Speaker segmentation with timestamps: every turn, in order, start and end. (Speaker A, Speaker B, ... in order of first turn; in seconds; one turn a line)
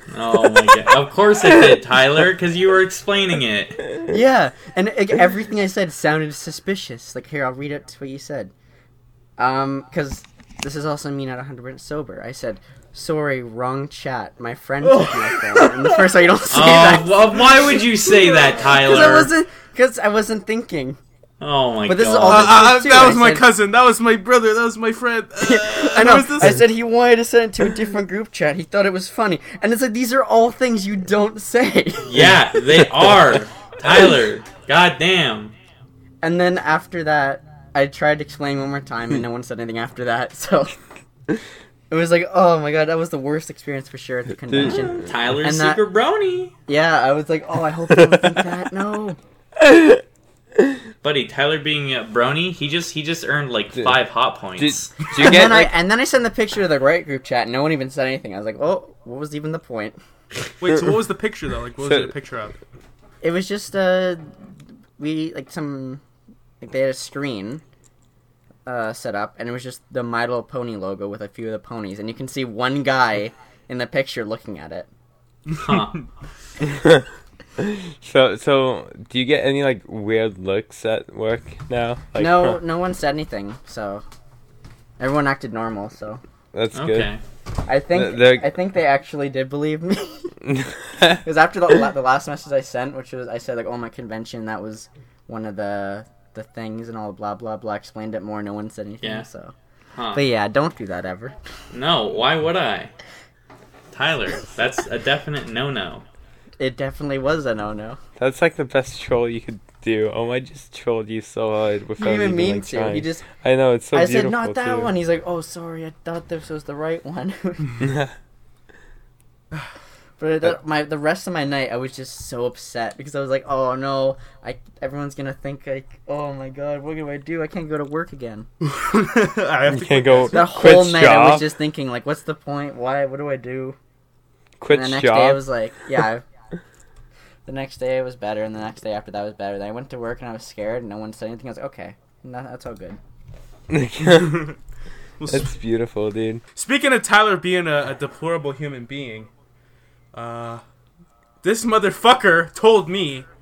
Speaker A: 0.1-3.8
Speaker B: 4.1-8.5
Speaker B: 9.4-17.6
Speaker C: 14.8-16.1
Speaker A: 16.5-19.3
Speaker B: 18.6-21.0
Speaker A: 21.4-22.6
Speaker B: 21.9-23.4
Speaker C: 22.3-26.6
Speaker B: 25.4-32.3
Speaker A: 32.1-35.5
Speaker B: 36.2-40.8
Speaker B: 41.9-45.8
Speaker D: 44.5-45.0
Speaker A: 44.6-46.5
Speaker B: 46.7-49.2
Speaker D: 48.1-48.4
Speaker D: 49.6-50.0
Speaker A: 51.0-55.0
Speaker D: 54.6-55.8
Speaker B: 55.2-60.0
Speaker C: 60.6-62.5
Speaker D: 61.8-62.1
Speaker B: 63.2-64.3
Speaker B: 65.0-66.0
Speaker B: 66.6-67.6
Speaker B: 68.7-74.9
Speaker C: 75.5-76.0
Speaker A: 75.5-76.0
Speaker D: 76.6-82.6
Speaker B: 82.2-84.0
Speaker B: 85.0-86.2
Speaker D: 86.5-87.1
Speaker A: 86.7-87.2
Speaker B: 87.7-90.4
Speaker D: 87.9-88.5
Speaker D: 90.5-91.2
Speaker B: 91.2-99.5
Speaker A: 99.0-99.3
Speaker A: 99.9-100.2
Speaker B: 100.1-101.4
Speaker A: 101.7-102.9
Speaker A: 103.9-106.0
Speaker B: 106.6-108.0
Speaker D: 108.2-114.9
Speaker B: 112.0-113.3
Speaker B: 113.9-117.8
Speaker D: 117.8-118.1
Speaker B: 120.2-128.5
Speaker C: 128.6-130.8
Speaker D: 129.7-131.5
Speaker B: 130.3-133.8
Speaker D: 134.6-135.5
Speaker B: 134.7-136.2
Speaker B: 137.5-143.0
Speaker D: 143.7-144.5
Speaker C: 144.1-144.6
Speaker C: 145.2-145.5
Speaker D: 145.3-146.4
Speaker C: 146.6-149.3
Speaker C: 150.1-150.6
Speaker C: 151.4-153.3